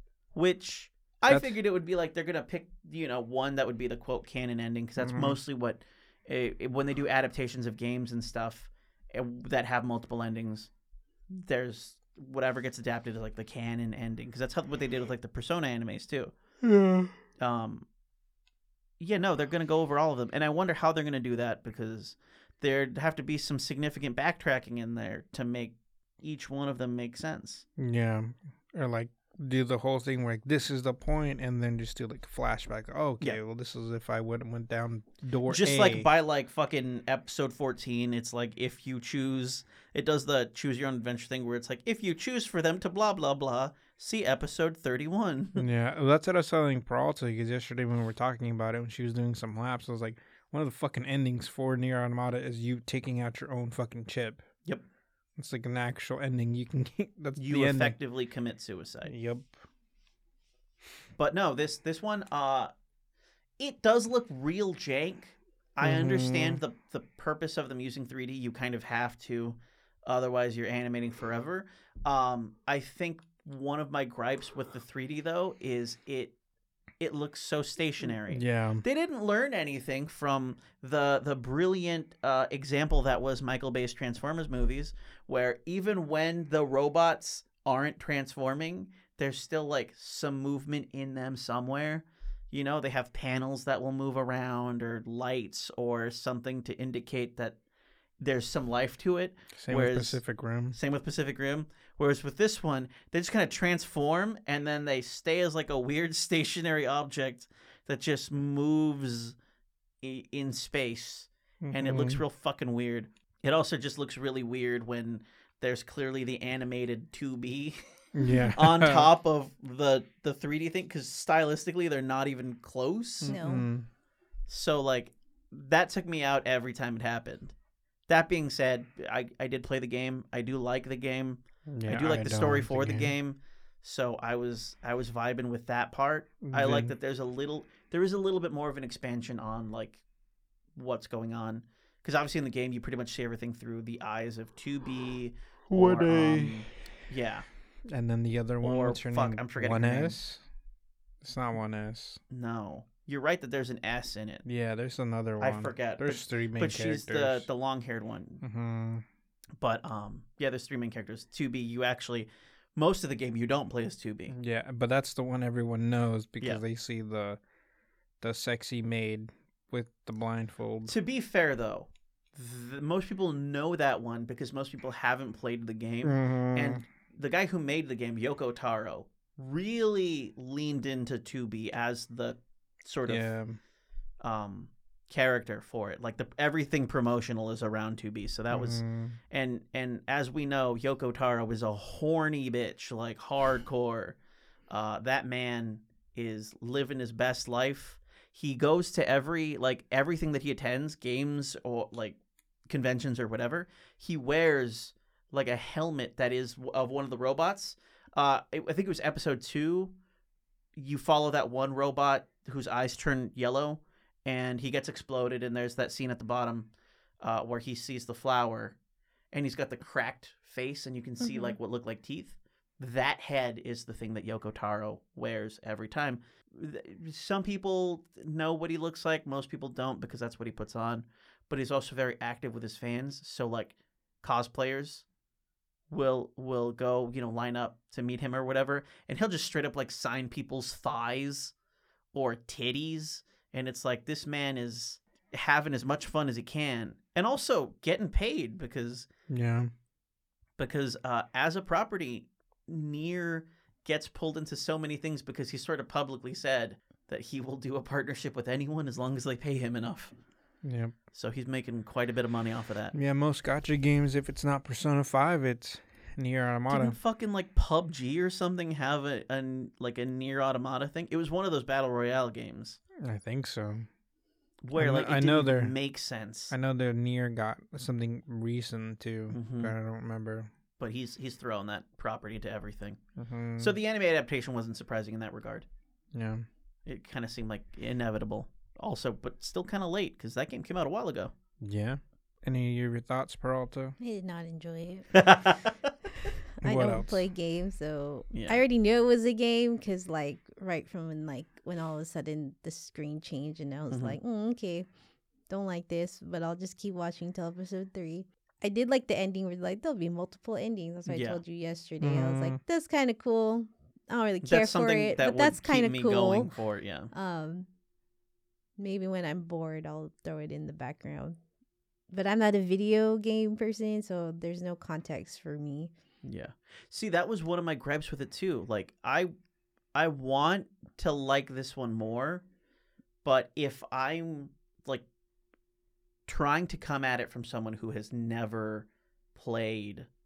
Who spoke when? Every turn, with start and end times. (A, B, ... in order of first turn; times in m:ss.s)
0:00.3-0:10.7 A
0:01.3-0:01.6 B
0:05.0-0:05.4 B
0:11.3-0:16.3 A
0:16.6-0:17.1 B
0:17.4-0:17.8 A
0:19.0-0:27.6 A
0:27.8-0:36.1 B
0:35.5-0:45.6 A
0:45.6-0:54.4 B
0:55.4-0:58.0 B
0:57.4-0:59.1 A
0:59.0-0:59.6 B
1:01.2-1:02.7 A
1:03.6-1:16.3 A
1:05.8-1:06.6 B
1:17.0-1:37.6 A
1:18.3-1:18.8 B
1:38.2-1:40.2 A
1:39.6-1:40.8 B
1:40.7-1:49.4 A
1:50.0-1:57.8 A
1:51.6-1:52.2 B
1:58.1-1:59.1 B
1:58.5-2:03.4 A
2:03.2-2:03.6 C
2:03.2-2:03.8 B
2:04.5-2:07.5 A
2:08.1-2:20.0 A
2:11.7-2:13.1 B
2:16.4-2:16.9 B
2:20.8-2:27.4 A
2:25.7-2:26.8 B
2:27.9-2:30.4 B
2:28.6-2:30.2 A
2:31.2-2:32.2 B
2:32.3-2:34.4 A
2:34.4-2:37.5 B
2:35.4-2:38.4 A
2:38.4-2:39.0 B
2:39.6-2:44.3 A
2:44.3-2:47.4 B
2:48.2-2:50.9 B
2:50.9-3:03.3 A
2:56.0-2:56.8 B
3:03.1-3:03.6 B
3:04.2-3:14.2 A
3:08.5-3:09.2 B
3:14.7-3:22.2 A
3:22.7-3:29.9 A
3:30.8-3:36.7 A
3:37.2-3:38.8 A
3:39.3-3:55.0 A
3:41.2-3:41.6 C
3:55.9-4:01.5 A
4:02.1-4:09.1 A
4:09.3-4:09.7 B
4:10.6-4:20.1 A
4:20.6-4:20.9 B
4:21.1-4:22.9 A
4:22.9-4:27.0 B
4:26.7-4:32.8 A
4:33.0-4:33.9 B
4:34.6-4:36.5 A
4:34.7-4:35.7 B
4:36.5-4:40.5 B
4:39.3-4:39.7 A
4:40.8-4:43.0 A
4:43.2-4:43.7 B
4:43.6-4:45.6 A
4:46.1-4:46.4 B
4:46.8-4:51.3 A
4:51.6-4:53.9 B
4:54.0-4:55.2 C
4:55.1-4:55.9 A
4:56.6-5:04.9 C
4:56.6-4:57.2 B
4:58.3-4:58.6 A
5:03.9-5:04.2 A
5:05.5-5:16.5 C
5:11.1-5:11.4 A
5:12.0-5:12.6 B
5:14.4-5:17.1 A
5:17.1-5:17.7 C
5:18.8-5:21.4 C
5:22.1-5:25.9 C
5:26.2-5:29.3 A
5:29.9-5:32.4 A
5:33.2-5:35.0 A
5:36.3-5:40.1 A